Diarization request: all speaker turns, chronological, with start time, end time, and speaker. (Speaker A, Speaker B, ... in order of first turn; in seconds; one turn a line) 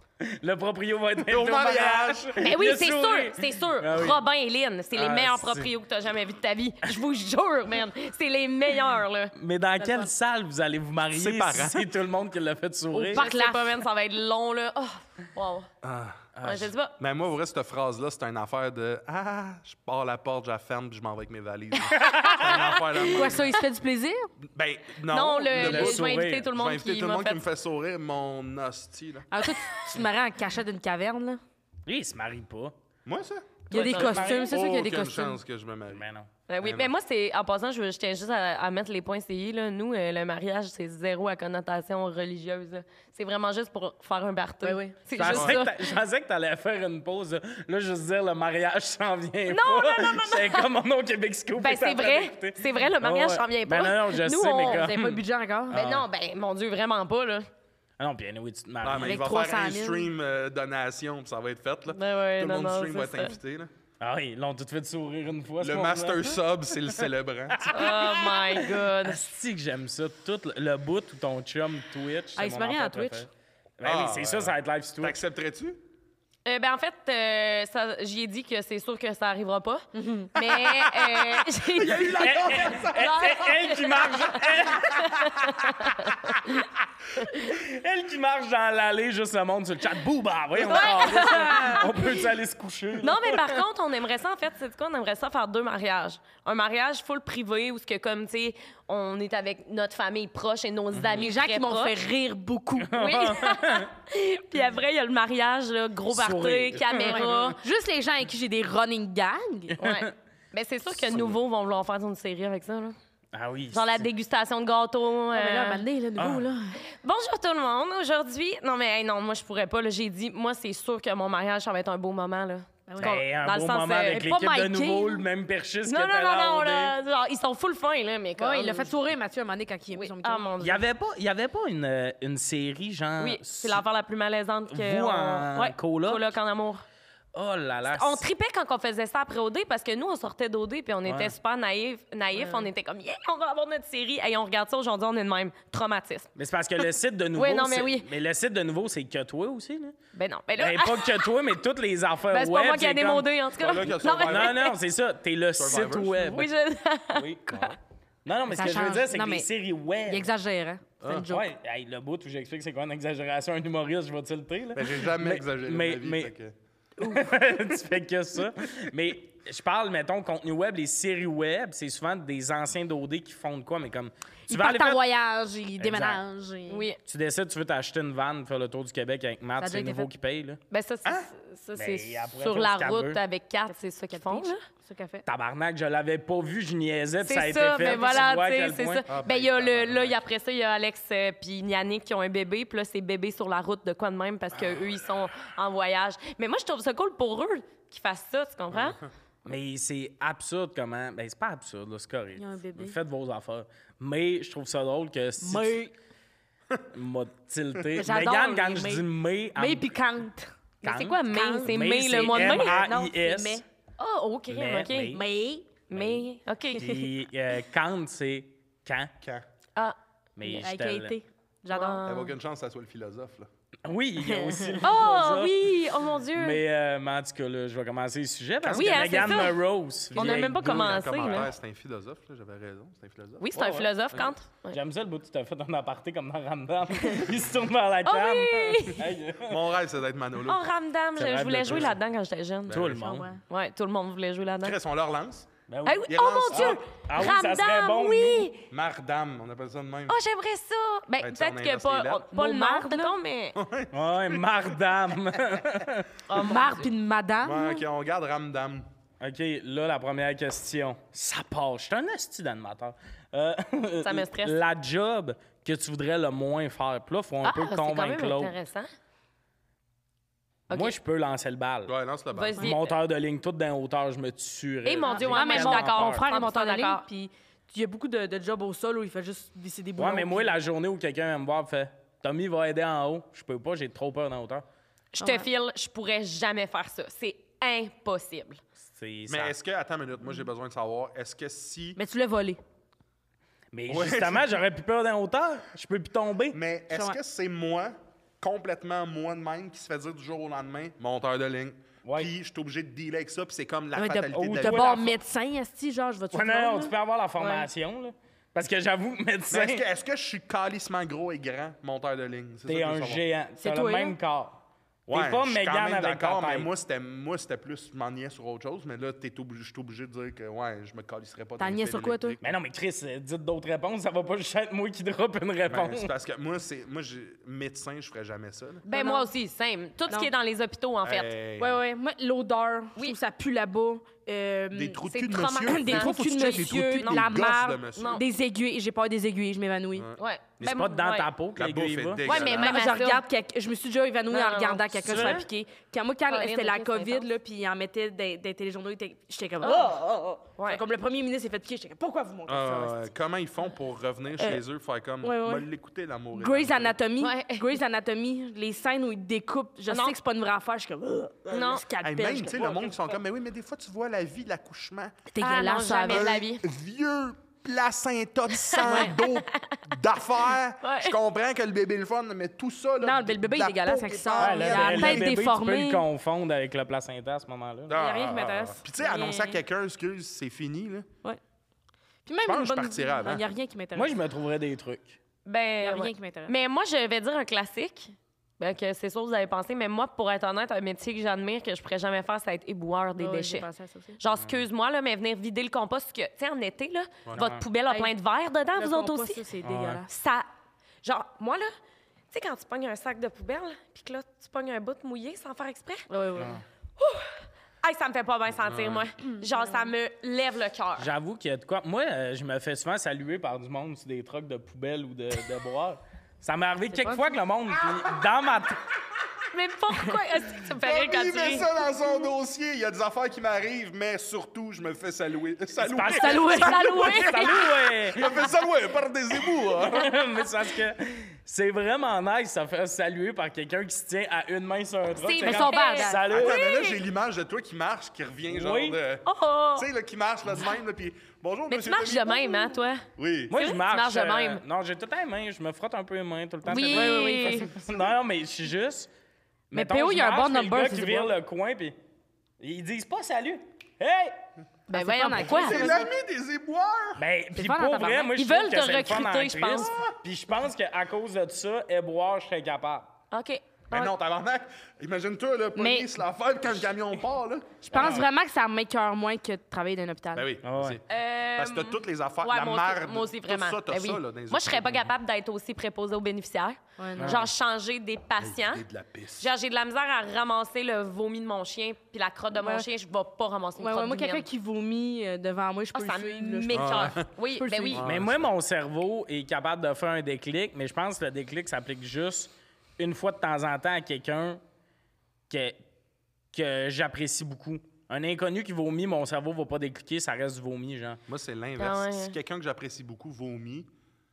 Speaker A: 0.2-4.2
Speaker B: 1.2-2.4
Speaker C: 2.4-9.3
Speaker A: 4.9-5.7
Speaker A: 9.3-13.3
Speaker D: 9.8-10.1
Speaker B: 11.1-11.9
Speaker D: 12.9-13.8
Speaker C: 13.1-15.7
Speaker B: 15.8-16.3
Speaker A: 16.4-16.7
Speaker C: 16.4-16.9
Speaker B: 17.0-23.6
Speaker A: 21.9-22.5
Speaker D: 22.5-24.3
Speaker B: 24.5-29.4
Speaker C: 25.1-27.4
Speaker A: 25.5-26.5
Speaker D: 29.3-31.4
Speaker A: 31.9-32.8
Speaker B: 33.0-33.5
Speaker D: 33.7-35.4
Speaker C: 33.7-34.5
Speaker A: 33.8-34.5
Speaker B: 34.3-36.0
Speaker A: 35.9-36.3
Speaker C: 36.5-45.9
Speaker B: 36.6-36.9
Speaker D: 44.6-45.0
Speaker A: 45.1-56.1
Speaker B: 45.3-45.6
Speaker C: 49.5-50.7
Speaker C: 51.6-54.9
Speaker D: 54.6-55.8
Speaker C: 55.7-57.5
Speaker A: 58.0-59.2
Speaker B: 58.8-63.7
Speaker D: 59.0-60.1
Speaker C: 61.9-63.4
Speaker A: 64.0-66.3
Speaker B: 65.6-67.7
Speaker A: 67.6-75.2
Speaker C: 67.7-69.3
Speaker D: 72.4-73.3
Speaker B: 73.8-75.8
Speaker C: 76.5-86.7
Speaker D: 80.0-80.3
Speaker B: 80.4-83.4
Speaker A: 82.2-86.1
Speaker A: 87.2-93.6
Speaker C: 90.6-92.1
Speaker D: 90.7-92.0
Speaker C: 93.0-102.0
Speaker D: 101.2-103.0
Speaker A: 102.8-103.9
Speaker C: 102.9-107.6
Speaker A: 106.1-107.6
Speaker D: 107.1-109.7
Speaker A: 109.7-110.1
Speaker C: 109.8-113.0
Speaker B: 111.1-111.4
Speaker A: 113.3-114.1
Speaker C: 113.7-115.8
Speaker D: 115.3-116.8
Speaker A: 116.2-116.5
Speaker C: 116.9-124.2
Speaker D: 122.9-123.1
Speaker A: 123.0-126.9
Speaker D: 124.1-125.2
Speaker C: 125.9-128.9
Speaker D: 128.4-130.8
Speaker C: 129.9-130.8
Speaker A: 130.6-133.8
Speaker C: 133.2-136.8
Speaker A: 134.7-136.4
Speaker A: 137.3-138.2
Speaker C: 137.9-146.3
Speaker A: 141.1-141.3
Speaker D: 142.4-142.7
Speaker A: 146.4-150.0
Speaker C: 147.3-148.1
Speaker C: 150.1-151.3
Speaker A: 150.6-153.3
Speaker C: 152.3-154.8
Speaker B: 153.6-154.6
Speaker A: 154.2-156.5
Speaker B: 155.6-156.3
Speaker C: 156.3-157.7
Speaker A: 157.1-157.7
Speaker B: 157.5-157.8
Speaker A: 158.2-160.3
Speaker D: 158.5-159.5
Speaker D: 160.1-161.5
Speaker B: 161.0-161.3
Speaker A: 161.3-166.3
Speaker B: 164.7-166.6
Speaker A: 167.0-175.0
Speaker D: 167.0-167.3
Speaker D: 174.5-176.8
Speaker A: 175.8-176.2
Speaker C: 176.7-177.0
Speaker A: 177.1-180.6
Speaker D: 179.6-180.1
Speaker C: 180.7-184.6
Speaker A: 181.8-183.2
Speaker D: 183.7-185.2
Speaker A: 185.3-189.1
Speaker C: 187.2-199.0
Speaker D: 187.8-188.2
Speaker B: 189.1-190.2
Speaker B: 198.7-199.0
Speaker A: 199.4-205.8
Speaker D: 202.4-203.0
Speaker D: 205.4-205.9
Speaker A: 206.9-209.9
Speaker D: 207.9-210.5
Speaker C: 210.8-212.8
Speaker A: 210.8-213.6
Speaker D: 211.3-213.6
Speaker C: 214.0-215.2
Speaker A: 214.5-215.2
Speaker D: 215.1-215.7
Speaker C: 215.9-217.0
Speaker A: 215.9-219.1
Speaker D: 216.8-217.0
Speaker A: 220.4-221.2
Speaker D: 220.4-222.0
Speaker C: 221.7-222.3
Speaker B: 222.1-223.5
Speaker A: 223.8-225.5
Speaker D: 224.3-224.9
Speaker C: 224.8-226.6
Speaker A: 226.3-231.3
Speaker B: 228.6-229.5
Speaker C: 228.7-229.6
Speaker C: 230.1-231.5
Speaker B: 230.2-233.5
Speaker C: 233.4-234.8
Speaker A: 233.5-233.9
Speaker A: 234.7-239.6
Speaker C: 238.1-239.0
Speaker B: 239.4-240.6
Speaker C: 240.4-242.8
Speaker A: 241.2-241.9
Speaker B: 241.7-241.9
Speaker B: 242.7-243.0
Speaker A: 242.7-243.3
Speaker D: 242.9-243.4
Speaker C: 243.5-244.8
Speaker B: 244.6-245.5
Speaker A: 245.7-248.5
Speaker C: 245.8-248.6
Speaker B: 246.1-246.8
Speaker B: 248.7-250.2
Speaker C: 250.1-253.6
Speaker B: 251.2-252.3
Speaker D: 252.3-253.2
Speaker B: 253.6-254.5
Speaker A: 253.9-256.1
Speaker C: 256.3-256.9
Speaker D: 256.3-257.8
Speaker B: 257.4-258.9
Speaker A: 259.2-268.6
Speaker C: 264.0-264.6
Speaker C: 267.4-268.9
Speaker C: 270.7-270.9
Speaker A: 270.7-271.9
Speaker B: 271.9-272.6
Speaker C: 272.3-273.0
Speaker A: 272.6-276.2
Speaker C: 274.9-277.0
Speaker D: 275.1-280.6
Speaker A: 280.0-284.6
Speaker C: 285.1-288.6
Speaker D: 285.2-285.5
Speaker A: 288.8-289.6
Speaker B: 289.3-292.0
Speaker D: 292.0-292.6
Speaker A: 293.7-296.6
Speaker B: 293.9-294.6
Speaker B: 296.5-305.1
Speaker D: 296.9-297.2
Speaker A: 302.0-302.3
Speaker D: 303.9-306.9
Speaker A: 304.3-305.1
Speaker A: 306.3-309.9
Speaker B: 309.5-313.2
Speaker A: 312.7-316.7
Speaker D: 313.6-314.2
Speaker B: 315.1-322.6
Speaker D: 321.6-322.4
Speaker A: 322.4-326.1
Speaker B: 325.7-328.8
Speaker D: 328.9-329.3
Speaker C: 328.9-331.3
Speaker B: 331.0-331.8
Speaker D: 331.6-335.0
Speaker B: 334.7-338.2
Speaker C: 335.1-337.2
Speaker D: 335.6-340.1
Speaker C: 337.9-338.2
Speaker B: 339.9-340.2
Speaker C: 340.2-341.3
Speaker A: 340.6-342.3
Speaker B: 341.6-342.8
Speaker C: 342.2-343.2
Speaker D: 342.3-353.1
Speaker C: 344.3-345.4
Speaker A: 345.0-345.5
Speaker C: 346.3-347.3
Speaker C: 349.6-349.9
Speaker C: 350.6-350.8
Speaker B: 352.5-357.0
Speaker D: 355.2-355.7
Speaker D: 356.3-363.0
Speaker C: 357.2-357.8
Speaker C: 359.9-360.2
Speaker C: 361.5-361.9
Speaker B: 362.0-365.2
Speaker D: 365.3-366.4
Speaker C: 365.4-366.6
Speaker B: 366.1-375.3
Speaker C: 368.6-369.6
Speaker D: 368.8-369.1
Speaker C: 370.8-371.2
Speaker D: 373.0-376.0
Speaker A: 374.4-378.0
Speaker B: 377.9-381.1
Speaker D: 377.9-379.6
Speaker D: 382.2-384.1
Speaker B: 382.4-383.4
Speaker A: 383.9-385.2
Speaker C: 385.5-393.7
Speaker D: 385.8-386.5
Speaker D: 393.2-394.2
Speaker C: 394.2-399.5
Speaker A: 394.3-394.6
Speaker A: 397.3-397.6
Speaker D: 398.8-400.1
Speaker A: 399.6-400.0
Speaker C: 400.1-400.5
Speaker C: 401.0-401.7
Speaker C: 402.3-406.1
Speaker D: 406.1-406.6
Speaker A: 406.4-406.6
Speaker C: 407.0-411.1
Speaker B: 408.6-409.1
Speaker D: 409.4-409.8
Speaker A: 411.0-418.8
Speaker D: 416.9-417.3
Speaker C: 419.5-421.7
Speaker B: 420.7-427.5
Speaker A: 425.8-428.5
Speaker D: 426.0-427.5
Speaker C: 426.5-427.8
Speaker B: 428.1-430.2
Speaker A: 429.8-436.6
Speaker C: 435.2-437.0
Speaker D: 435.4-436.2
Speaker B: 436.3-443.5
Speaker A: 438.5-439.0
Speaker C: 439.2-439.9
Speaker C: 441.7-444.6
Speaker A: 443.5-449.1
Speaker C: 446.7-447.7
Speaker D: 446.7-447.8
Speaker A: 449.7-452.0
Speaker D: 449.7-451.3
Speaker A: 452.6-454.4
Speaker D: 454.9-456.1
Speaker C: 454.9-456.1
Speaker B: 455.4-457.2
Speaker A: 457.2-463.1
Speaker D: 457.6-458.4
Speaker C: 458.4-459.9
Speaker B: 459.8-460.1
Speaker C: 463.3-464.1
Speaker B: 463.9-468.2
Speaker D: 465.8-466.1
Speaker D: 467.9-470.5
Speaker A: 467.9-468.2
Speaker C: 468.0-468.2
Speaker B: 470.3-475.1
Speaker A: 470.6-471.0
Speaker C: 471.1-478.8
Speaker D: 477.0-477.4
Speaker A: 477.2-477.5
Speaker B: 478.4-479.5
Speaker C: 479.4-484.4
Speaker D: 482.6-482.9
Speaker D: 483.8-488.0
Speaker C: 485.9-488.0
Speaker B: 486.7-487.3
Speaker B: 487.9-488.5
Speaker A: 488.0-494.6
Speaker A: 495.5-495.8
Speaker A: 496.5-501.2
Speaker B: 501.3-503.9
Speaker C: 501.8-502.4